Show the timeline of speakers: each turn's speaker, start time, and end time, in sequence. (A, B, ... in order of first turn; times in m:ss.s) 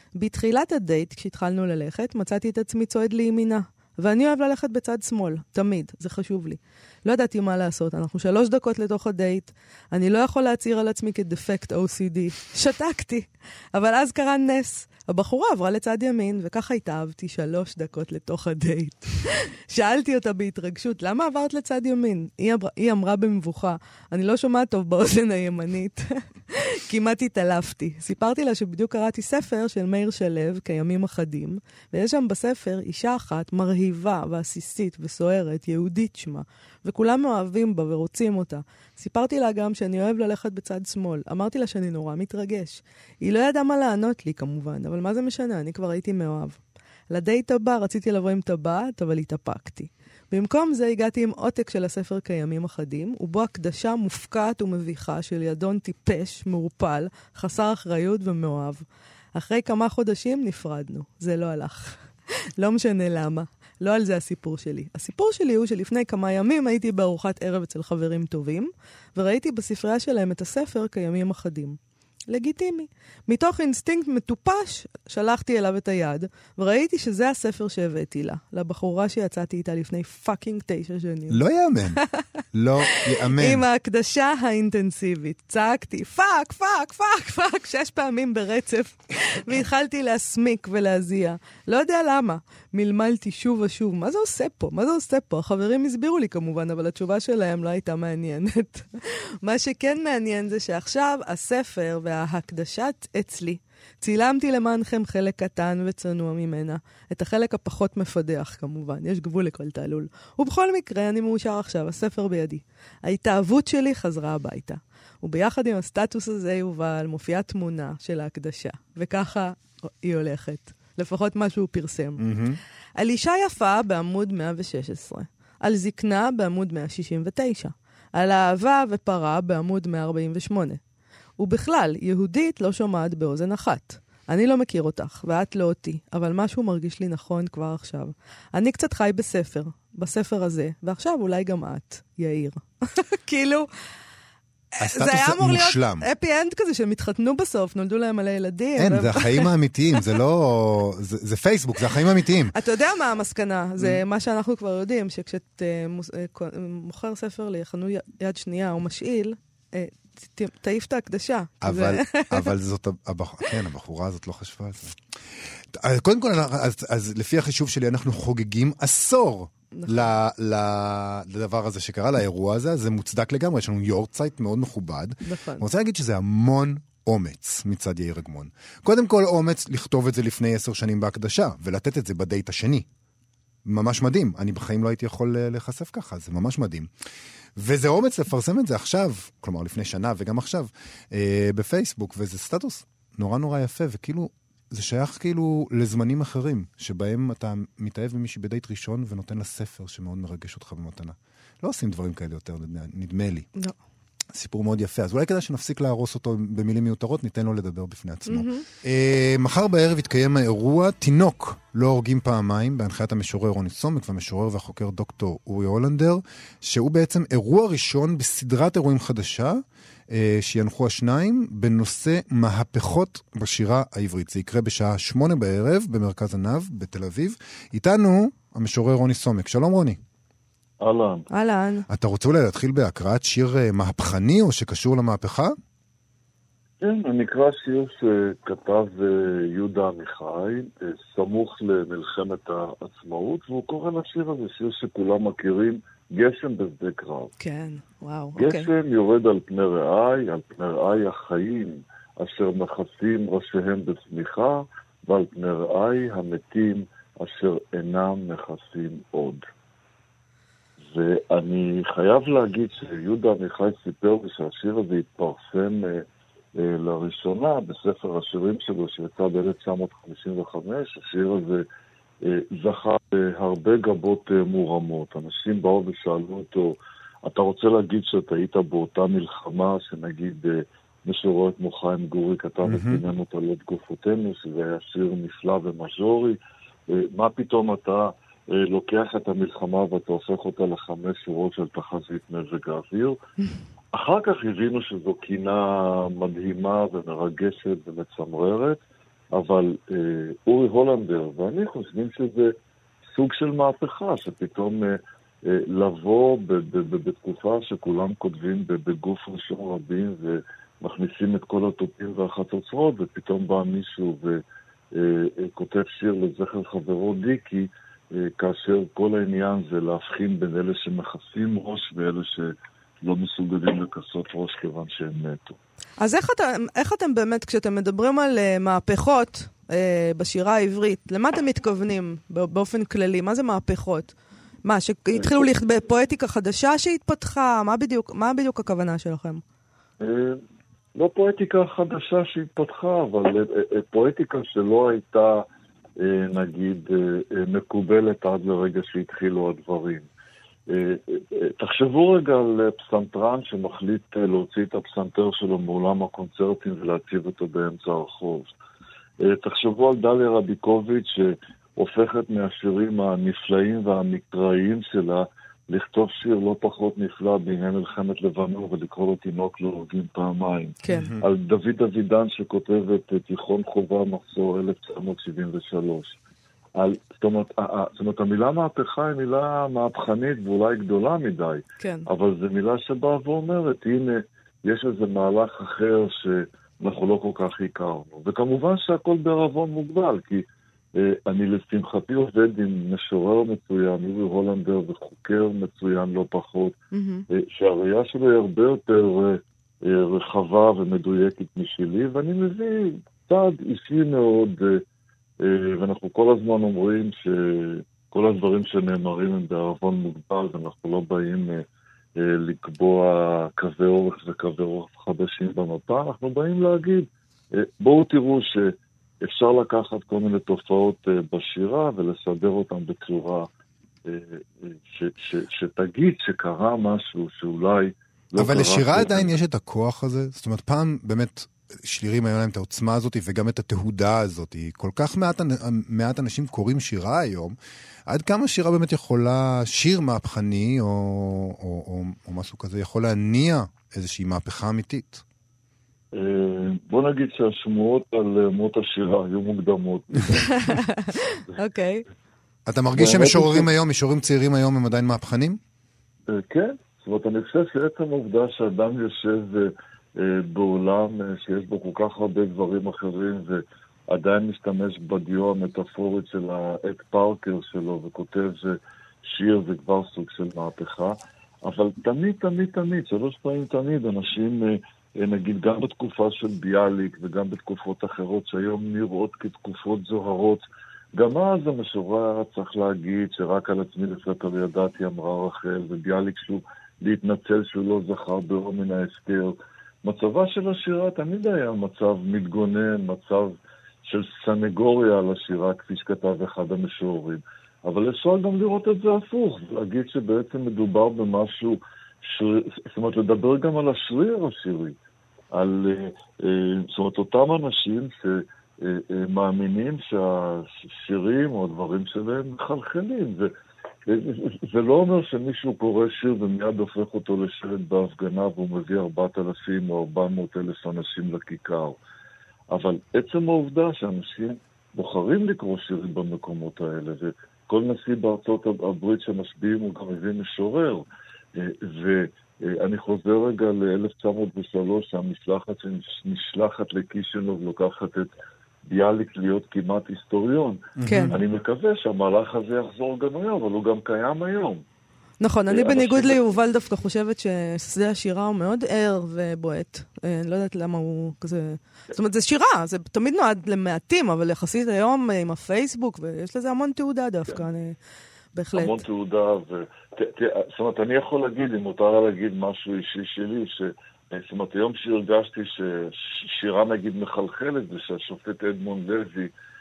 0:00.2-1:11.8 A
1:12.3-1:21.4 A
1:21.3-1:22.0 B
1:22.0-1:22.2 A
1:22.5-1:23.6 B
1:22.9-2:02.2 A
2:02.2-2:02.6 B
2:03.0-2:10.8 A
2:11.4-2:23.7 A
2:24.7-2:30.0 A
2:24.8-2:26.1 B
2:28.8-2:32.6 B
2:32.5-2:42.5 A
2:41.6-2:45.0 B
2:45.7-3:02.9 B
2:49.7-2:50.1 A
2:55.2-2:55.7 A
3:03.6-3:06.9 B
3:07.6-3:23.5 B
3:24.3-3:50.0 B
3:28.3-3:28.7 A
3:50.8-3:51.2 C
3:51.3-3:51.9 A
3:51.9-3:55.6 B
3:56.8-4:07.3 C
4:07.4-4:08.7 A
4:08.4-4:19.4 C
4:20.8-4:26.1 C
4:26.6-4:31.7 C
4:32.2-4:46.4 C
4:42.6-4:43.0 B
4:46.9-4:53.2 C
4:53.9-5:02.5 C
5:03.1-5:14.4 C
5:14.9-5:25.6 C
5:26.0-5:39.4 A
5:35.2-5:35.5 C
5:40.0-5:40.4 C
5:41.0-5:45.5 C
5:46.0-5:50.1 C
5:50.7-5:58.5 C
5:59.2-6:16.2 C
6:10.8-6:11.2 A
6:16.8-6:36.8 C
6:21.8-6:22.1 A
6:36.9-6:37.2 A
6:37.3-6:44.8 C
6:45.4-6:51.6 C
6:52.2-7:03.5 C
7:04.1-7:09.3 C
7:08.4-7:17.6 B
7:18.1-7:25.2 B
7:26.1-7:30.7 C
7:30.5-7:32.0 A
7:32.7-7:35.6 B
7:33.0-7:33.7 C
7:36.3-8:00.6 C
8:01.2-8:25.0 C
8:25.5-8:33.5 C
8:34.1-8:42.0 C
8:42.7-8:58.3 C
8:58.9-9:04.8 C
9:01.0-9:01.3 B
9:01.1-9:01.4 A
9:05.4-9:18.0 A
9:05.7-9:06.4 C
9:18.5-9:19.0 A
9:18.8-9:29.5 C